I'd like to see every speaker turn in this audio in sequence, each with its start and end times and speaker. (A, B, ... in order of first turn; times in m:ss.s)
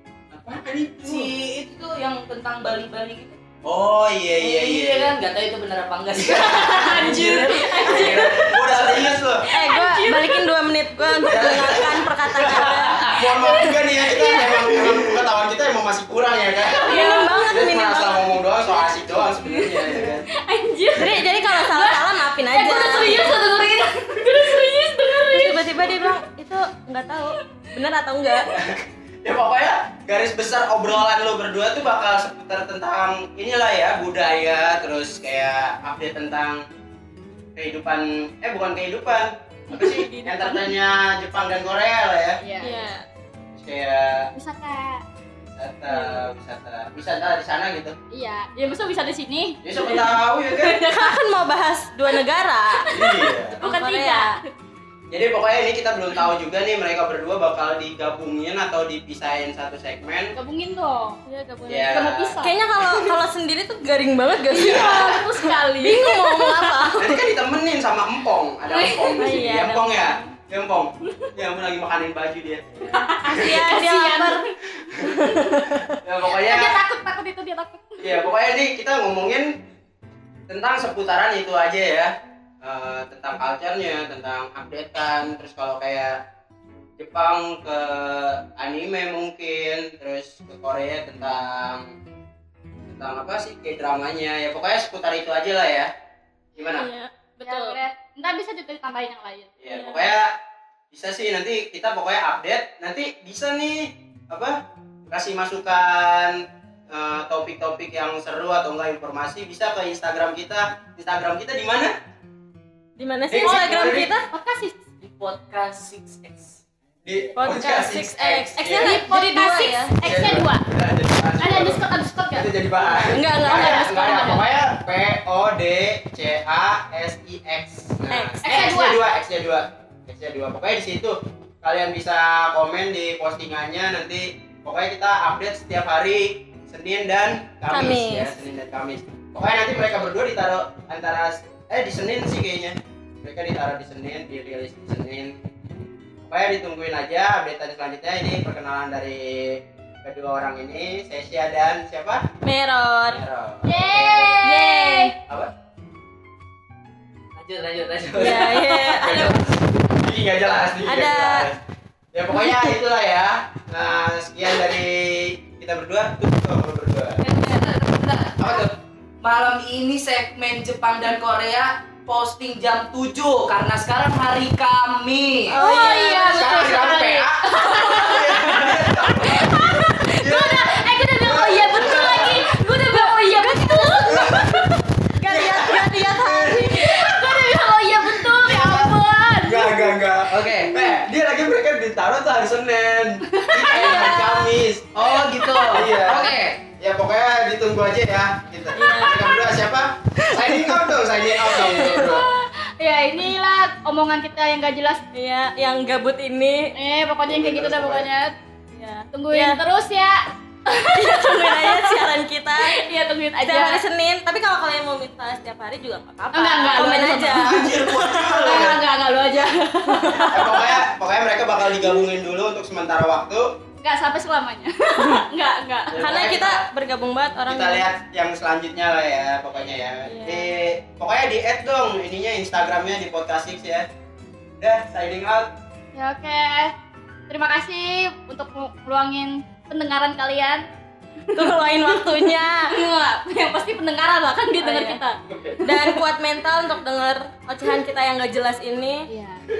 0:00.3-0:01.3 A
0:01.0-0:03.4 B
0:03.6-0:05.1 A
0:04.4-0:09.1 B
0:06.2-0:09.5 A
0:06.4-0:08.5 C
0:07.8-0:08.2 D
0:09.4-0:10.4 C
0:09.5-0:13.1 D
0:11.2-0:20.2 A
0:12.6-0:13.3 B
0:13.4-0:14.7 C
0:14.7-0:15.2 B
0:16.6-0:17.4 C
0:16.8-0:18.4 D
0:19.3-0:26.2 C
0:21.0-0:23.4 D
0:25.2-0:28.5 D
0:28.5-0:36.6 A
0:37.6-0:42.4 A
0:39.7-0:40.6 D
0:42.4-0:42.9 C
0:42.6-0:43.0 D
0:43.5-0:44.3 A
0:44.3-0:45.0 C
0:45.5-0:47.9 A
0:45.9-0:46.2 D
0:48.1-0:50.0 C
0:49.6-0:50.8 A
0:50.6-0:51.1 C
0:50.7-0:52.9 D
0:52.8-0:54.4 C
0:52.9-0:53.6 A
0:53.6-0:54.3 D
0:55.1-1:00.3 A
1:00.4-1:01.2 C
1:01.3-1:07.3 D
1:01.7-1:03.2 A
1:01.8-1:02.6 C
1:04.5-1:06.8 C
1:04.5-1:05.2 A
1:07.0-1:13.3 A
1:08.7-1:09.4 C
1:09.2-1:10.3 D
1:12.9-1:14.5 C
1:13.0-1:14.4 D
1:14.7-1:15.0 A
1:15.0-1:16.0 D
1:15.9-1:16.8 A
1:16.2-1:18.3 C
1:18.0-1:19.5 A
1:20.5-1:26.2 A
1:27.0-1:31.9 A
1:32.9-1:35.9 A
1:36.6-1:36.9 A
1:36.6-1:37.8 D
1:37.4-1:39.5 C
1:39.6-1:40.4 A
1:39.7-1:40.1 D
1:40.9-1:51.9 A
1:53.0-1:54.3 D
1:53.3-1:54.1 A
1:53.4-1:54.8 C
1:55.0-1:56.6 B
1:57.0-1:59.0 A
1:57.4-1:59.9 D
1:58.6-2:00.6 C
2:00.0-2:25.4 A
2:01.4-2:04.4 C
2:03.0-2:04.2 D
2:08.1-2:08.7 D
2:08.4-2:09.0 C
2:17.7-2:18.3 D
2:26.2-2:32.2 A
2:32.4-2:33.2 D
2:33.1-2:34.4 A
2:33.6-2:35.1 C
2:34.4-2:35.2 D
2:35.3-2:35.5 A
2:37.3-2:39.2 B
2:38.2-2:39.4 D
2:38.2-2:41.6 A
2:40.8-2:41.5 D
2:42.1-2:47.2 A
2:42.3-2:42.7 D
2:47.2-2:55.6 B
2:55.5-2:56.8 D
2:55.6-3:04.7 C
2:56.3-3:02.4 A
2:58.1-2:58.8 B
3:01.9-3:04.2 D
3:04.0-3:22.2 A
3:05.2-3:07.1 D
3:06.5-3:09.9 C
3:10.3-3:10.8 B
3:13.3-3:14.2 C
3:13.7-3:14.5 D
3:14.9-3:16.6 B
3:18.7-3:19.4 D
3:20.3-3:20.8 D
3:21.4-3:22.1 D
3:21.8-3:25.0 C
3:25.1-3:26.7 D
3:26.7-3:28.3 C
3:27.3-3:28.1 A
3:28.7-3:29.6 D
3:29.1-3:32.0 C
3:30.9-3:32.8 D
3:32.6-3:33.8 C
3:33.4-3:38.7 D
3:36.3-3:40.8 C
3:37.3-3:38.8 A
3:39.5-3:40.8 D
3:40.3-3:43.5 A
3:43.8-3:45.9 C
3:45.9-3:46.6 A
3:45.9-3:47.8 D
3:47.5-3:53.9 A
3:50.0-3:50.5 D
3:54.6-3:55.5 A
3:55.9-3:56.7 C
3:57.3-4:00.6 C
4:01.3-4:06.0 C
4:01.3-4:02.7 D
4:04.6-4:05.0 D
4:05.3-4:05.6 A
4:05.6-4:09.1 D
4:09.1-4:09.4 C